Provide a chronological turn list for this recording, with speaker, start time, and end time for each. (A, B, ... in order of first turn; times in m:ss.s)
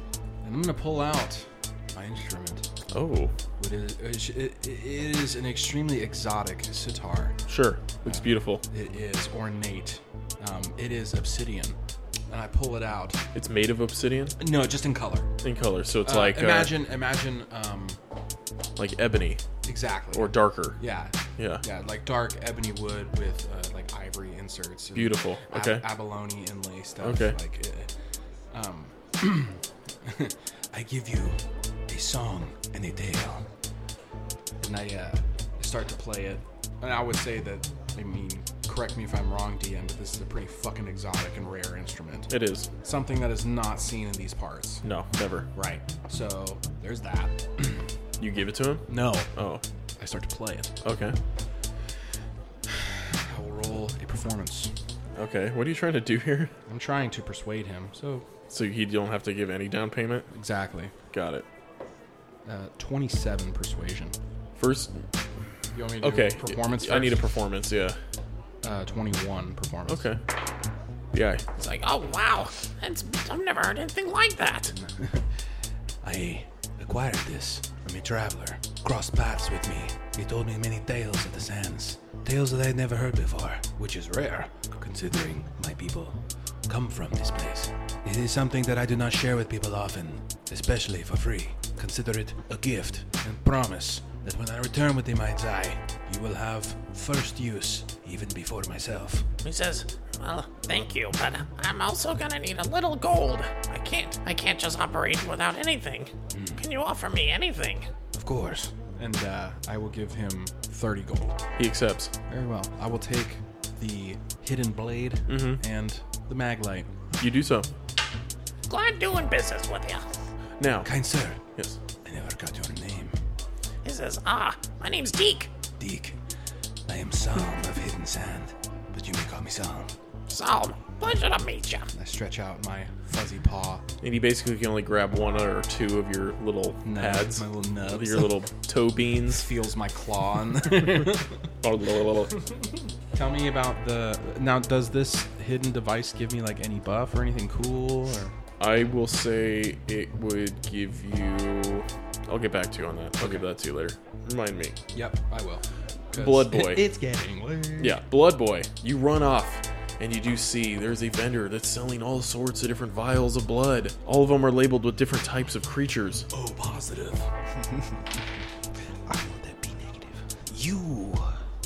0:00.4-0:02.6 A
0:02.9-0:03.3 B
0:03.6-0:07.4 A
0:07.5-0:08.6 B
0:08.0-0:11.8 A
0:12.3-0:13.2 A
0:13.3-0:14.4 B
0:14.4-0:15.3 A
0:15.4-0:16.7 B
0:16.0-0:18.0 A
0:18.8-0:19.4 B
0:19.6-0:27.9 A
0:20.1-0:20.8 B
0:21.4-0:21.6 B
0:24.9-0:25.8 B
0:27.0-0:27.4 B
0:28.5-0:31.0 A
0:30.8-0:33.5 C
0:34.6-0:44.8 A
0:42.3-0:42.7 B
0:44.8-0:45.5 B
0:45.5-0:47.8 A
0:48.2-0:49.6 B
0:48.9-0:49.3 A
0:50.0-0:50.7 A
0:50.8-0:51.2 B
0:52.7-0:54.7 A
0:55.2-0:56.5 B
0:56.7-0:58.2 A
0:58.5-1:00.3 B
1:00.3-1:00.9 A
1:01.1-1:01.4 B
1:02.4-1:04.1 A
1:04.6-1:05.0 B
1:05.7-1:07.2 A
1:06.0-1:08.0 B
1:08.6-1:10.1 A
1:09.9-1:10.2 B
1:11.1-1:11.4 B
1:11.5-1:14.7 D
1:14.7-1:15.2 A
1:16.0-1:39.3 C
1:39.4-1:47.9 D
1:46.3-1:46.6 C
1:48.1-1:48.7 C
1:48.5-1:51.4 A
1:51.6-1:52.1 B
1:52.3-1:56.9 A
1:55.3-1:55.6 B
1:57.2-1:57.7 B
1:58.7-2:00.1 D
2:00.6-2:00.9 B
2:00.8-2:01.4 C
2:02.0-2:03.2 C
2:03.8-2:05.5 D
2:05.8-2:06.2 C
2:06.9-2:09.9 C
2:10.3-2:11.9 D
2:11.9-2:13.8 A
2:14.0-2:19.5 B
2:16.8-2:18.3 A
2:19.3-2:21.3 A
2:21.6-2:22.3 B
2:23.1-2:28.3 A
2:28.6-2:34.8 B
2:34.9-2:37.8 A
2:36.1-2:36.8 B
2:37.8-2:46.3 B
2:49.1-2:51.4 E